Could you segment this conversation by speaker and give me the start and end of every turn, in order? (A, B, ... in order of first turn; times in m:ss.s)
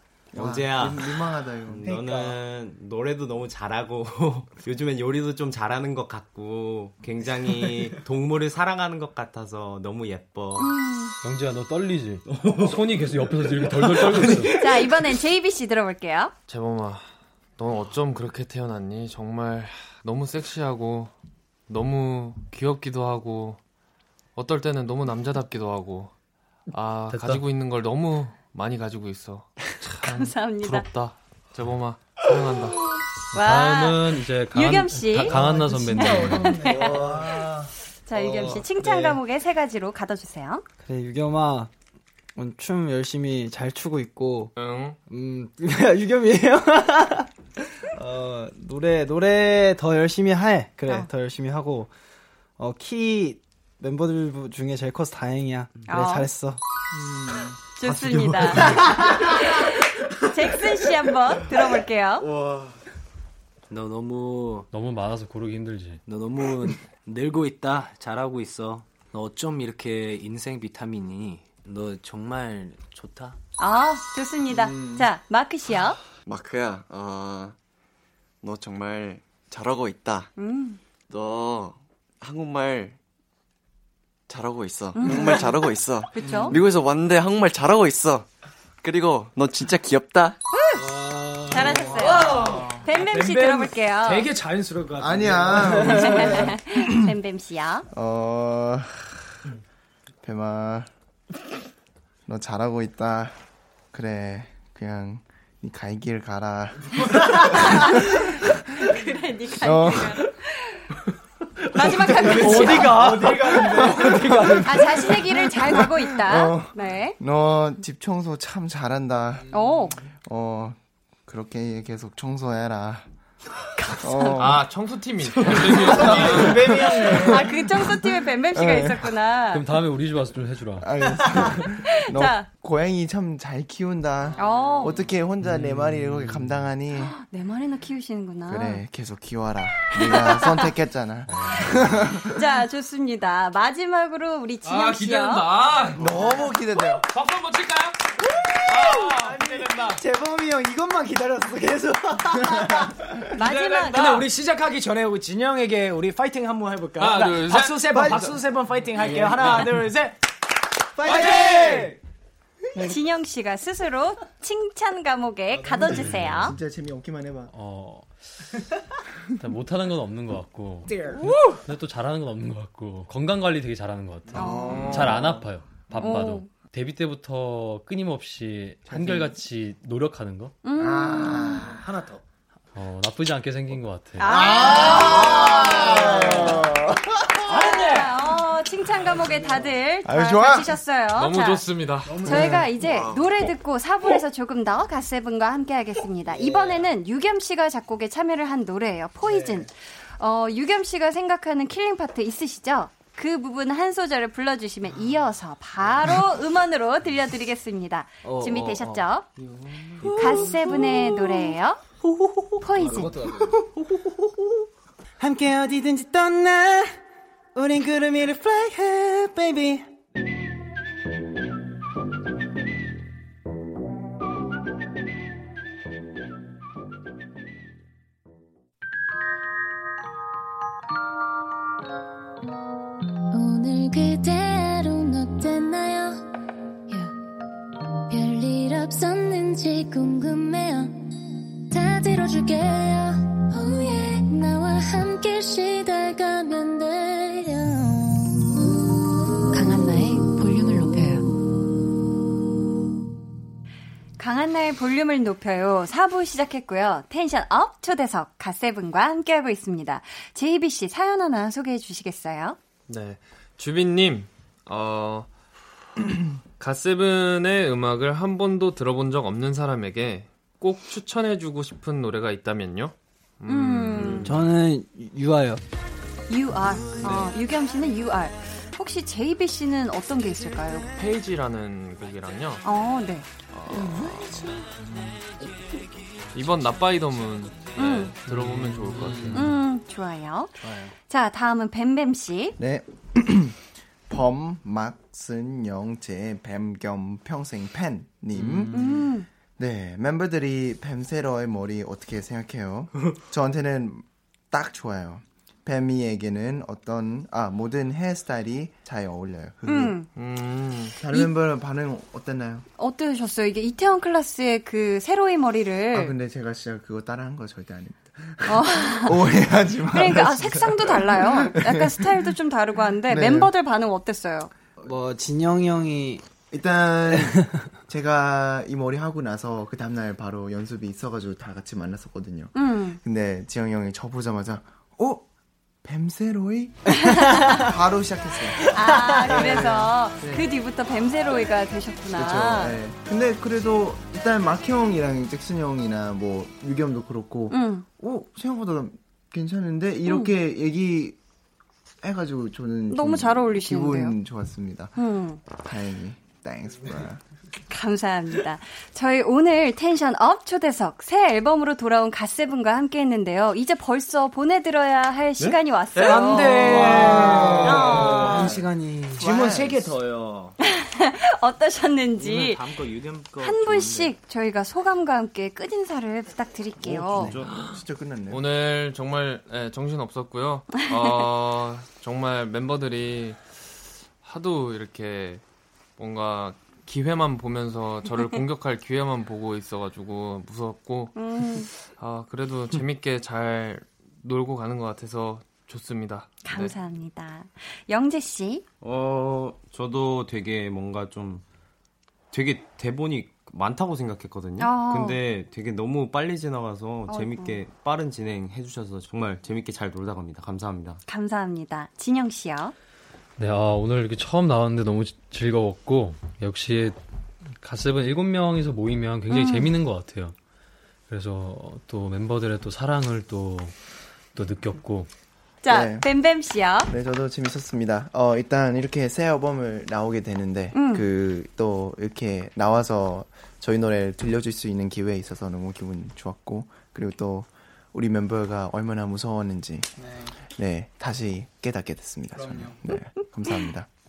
0:00.3-0:01.9 A
0:00.4-0:10.7 B
0:01.8-0:02.4 C
0:10.6-0:11.2 D
0:11.2-0:14.6 E
0:12.3-0:12.9 B
0:13.5-0:14.5 B
0:14.6-0:16.3 D
0:16.5-0:21.1 F
0:21.7-0:23.6 F
0:24.4-0:26.1 F
0:26.7-0:32.9 F
0:27.1-0:27.4 E
0:30.0-0:30.9 D
0:33.3-0:36.7 E
0:33.3-0:40.6 D
0:35.3-0:39.2 C
0:40.8-0:41.7 C
0:42.4-0:44.5 C
0:44.6-0:45.0 F
0:45.1-0:47.3 C
0:47.9-0:51.9 C
0:52.6-0:56.6 C
0:55.9-0:56.3 D
0:56.9-0:57.6 A
0:57.8-1:02.3 D
0:57.8-0:58.6 B
0:58.7-0:59.1 C
1:03.7-1:04.7 G
1:04.7-1:06.0 E
1:06.1-1:13.4 G
1:13.6-1:16.0 D
1:14.6-1:15.0 A
1:16.2-1:17.6 H
1:18.4-1:20.3 H
1:20.4-1:20.8 D
1:21.1-1:23.0 H
1:24.3-1:28.3 H
1:25.0-1:25.5 D
1:26.1-1:26.6 D
1:28.8-1:30.4 H
1:30.5-1:30.9 D
1:30.8-1:36.0 G
1:31.5-1:34.3 D
1:35.0-1:36.9 A
1:35.9-1:37.9 D
1:37.9-1:39.2 A
1:40.2-1:40.9 A
1:42.3-1:43.4 A
1:43.9-1:48.9 A
1:47.4-1:50.9 D
1:49.5-1:50.2 A
1:51.7-1:53.1 D
1:52.1-1:55.1 C
1:52.3-1:53.5 G
1:53.5-2:03.1 A
1:54.6-1:57.2 D
1:59.5-2:00.0 D
2:03.8-2:04.4 D
2:04.0-2:04.7 A
2:04.4-2:06.7 F
2:05.5-2:09.1 A
2:05.8-2:07.4 C
2:07.1-2:09.6 D
2:09.5-2:10.9 E
2:10.8-2:17.2 A
2:11.6-2:12.5 D
2:14.4-2:15.0 D
2:15.5-2:16.5 E
2:16.9-2:18.8 D
2:18.5-2:22.4 A
2:19.9-2:20.7 D
2:21.5-2:25.5 D
2:24.6-2:29.4 F
2:26.0-2:27.0 A
2:28.3-2:33.2 C
2:29.3-2:30.0 G
2:33.3-2:34.3 D
2:33.4-2:40.2 G
2:33.4-2:33.8 F
2:37.0-2:38.3 F
2:39.1-2:39.4 C
2:41.0-2:42.0 C
2:41.1-2:41.8 F
2:41.5-2:41.9 G
2:42.8-2:46.6 D
2:45.6-2:45.9 C
2:45.9-2:47.5 A
2:47.5-2:48.5 E
2:49.4-2:50.9 E
2:50.9-2:51.2 C
2:51.2-2:51.6 D
2:51.5-3:00.6 E
2:54.3-2:55.4 A
2:54.4-2:55.0 D
2:56.0-2:56.5 D
2:58.9-2:59.3 A
3:00.6-3:01.7 D
3:00.8-3:01.9 A
3:01.8-3:02.2 G
3:02.8-3:04.4 E
3:04.2-3:06.6 D
3:04.3-3:07.4 A
3:05.9-3:06.7 C
3:07.4-3:11.7 D
3:07.5-3:08.1 G
3:09.1-3:09.7 C
3:10.0-3:10.8 A
3:11.1-3:12.2 F
3:12.1-3:12.7 C
3:12.2-3:29.3 D
3:12.3-3:12.6 A
3:12.8-3:13.3 H
3:16.3-3:16.9 C
3:19.2-3:19.7 C
3:28.2-3:29.0 C
3:29.4-3:30.4 F
3:30.0-3:31.5 C
3:30.1-3:31.8 D
3:32.0-3:34.3 C
3:32.6-3:33.2 D
3:35.2-3:37.0 C
3:37.6-3:39.9 C
3:53.3-3:56.3 I
3:58.1-4:01.0 I
4:01.7-4:08.4 I
4:09.5-4:11.3 D
4:14.2-4:22.6 D
4:22.9-4:25.3 F
4:26.6-4:34.4 F
4:33.5-4:34.3 D
4:34.2-4:35.6 C
4:36.3-4:40.9 D
4:41.0-4:42.6 F
4:42.6-4:43.3 D
4:43.5-4:45.2 F
4:46.3-4:49.5 F
4:47.8-4:48.1 D
4:49.3-4:52.6 D
4:52.6-4:58.8 A
4:58.4-4:59.0 C
4:58.7-4:59.3 D
4:59.6-5:10.0 A
5:09.7-5:10.1 D
5:10.2-5:11.0 F
5:11.0-5:12.7 A
5:12.8-5:16.1 D
5:15.9-5:22.3 A
5:18.5-5:19.2 D
5:19.9-5:24.5 D
5:23.1-5:23.5 A
5:24.8-5:26.2 C
5:26.5-5:35.3 A
5:32.6-5:33.0 D
5:35.8-5:38.7 A
5:37.0-5:37.7 D
5:38.7-5:42.8 D
5:38.9-5:39.4 C
5:39.2-5:40.5 A
5:42.2-5:51.2 A
5:47.5-5:47.9 D
5:50.1-5:50.3 D
5:52.0-5:57.2 A
5:52.9-5:54.2 D
5:55.0-5:55.4 D
5:57.7-6:08.5 D
6:06.0-6:10.6 G
6:06.8-6:09.2 C
6:07.1-6:07.5 A
6:09.2-6:09.8 A
6:10.6-6:12.7 D
6:12.2-6:14.2 G
6:13.4-6:17.3 D
6:16.8-6:18.5 A
6:17.2-6:17.4 B
6:17.4-6:17.8 G
6:18.3-6:23.6 F
6:24.2-6:25.4 F
6:26.0-6:36.7 F
6:31.2-6:31.7 D
6:36.4-6:38.6 D
6:38.8-6:41.4 B
6:42.3-6:51.0 B
6:44.6-6:45.2 D
6:47.1-6:47.6 D
6:51.1-6:52.7 D
6:53.4-6:57.0 E
6:57.6-7:00.4 E
6:59.3-6:59.7 D
7:01.1-7:03.8 E
7:04.3-7:05.1 E
7:05.6-7:06.9 D
7:05.7-7:06.1 A
7:06.9-7:23.9 A
7:10.8-7:11.0 D
7:20.0-7:20.3 C
7:22.4-7:22.8 C